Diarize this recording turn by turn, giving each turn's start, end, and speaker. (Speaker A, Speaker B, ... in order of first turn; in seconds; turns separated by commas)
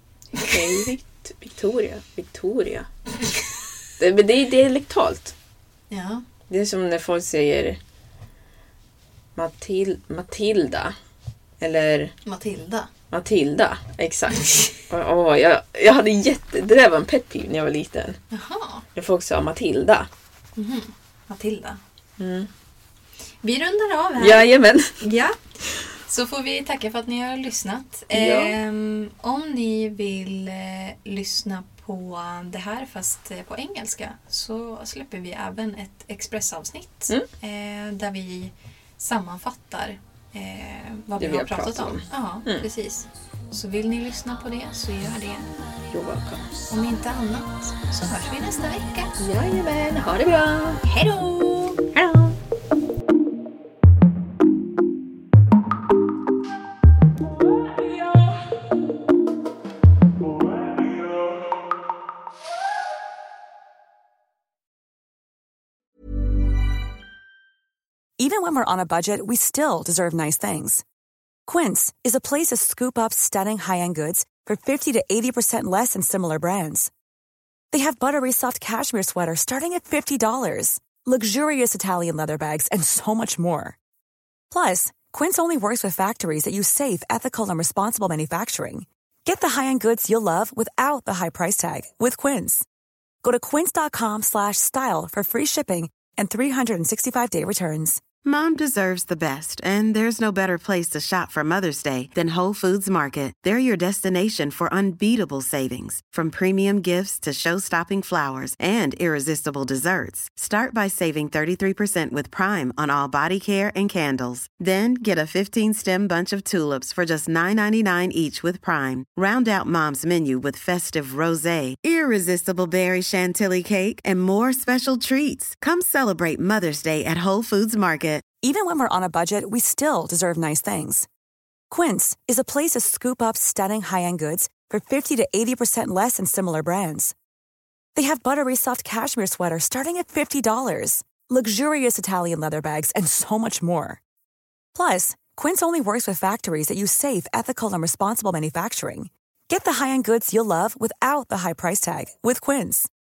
Speaker A: 0.3-0.9, Speaker B: 0.4-2.9, Speaker B: 4.0-5.3, Speaker A: 5.9-6.2, Speaker B: 6.5-7.8, Speaker B: 9.4-10.9, Speaker B: 11.6-12.1, Speaker A: 12.2-12.9, Speaker B: 13.1-18.2, Speaker A: 18.3-18.8, Speaker B: 18.9-20.1, Speaker A: 20.6-21.8, Speaker B: 22.2-22.5, Speaker A: 23.4-24.5, Speaker B: 24.2-24.9, Speaker A: 25.0-25.4, Speaker A: 26.1-45.5, Speaker B: 28.1-28.6, Speaker B: 41.2-42.7, Speaker B: 45.9-46.5, Speaker A: 46.7-49.1, Speaker B: 49.2-50.8, Speaker A: 50.8-51.8, Speaker B: 51.9-52.4, Speaker C: 68.2-70.8, Speaker C: 71.5-76.9, Speaker C: 77.7-83.8, Speaker C: 84.5-92.7, Speaker C: 93.2-98.0, Speaker D: 98.2-128.3, Speaker C: 128.4-131.1, Speaker C: 131.7-137.1, Speaker C: 137.9-144.0, Speaker C: 144.8-152.9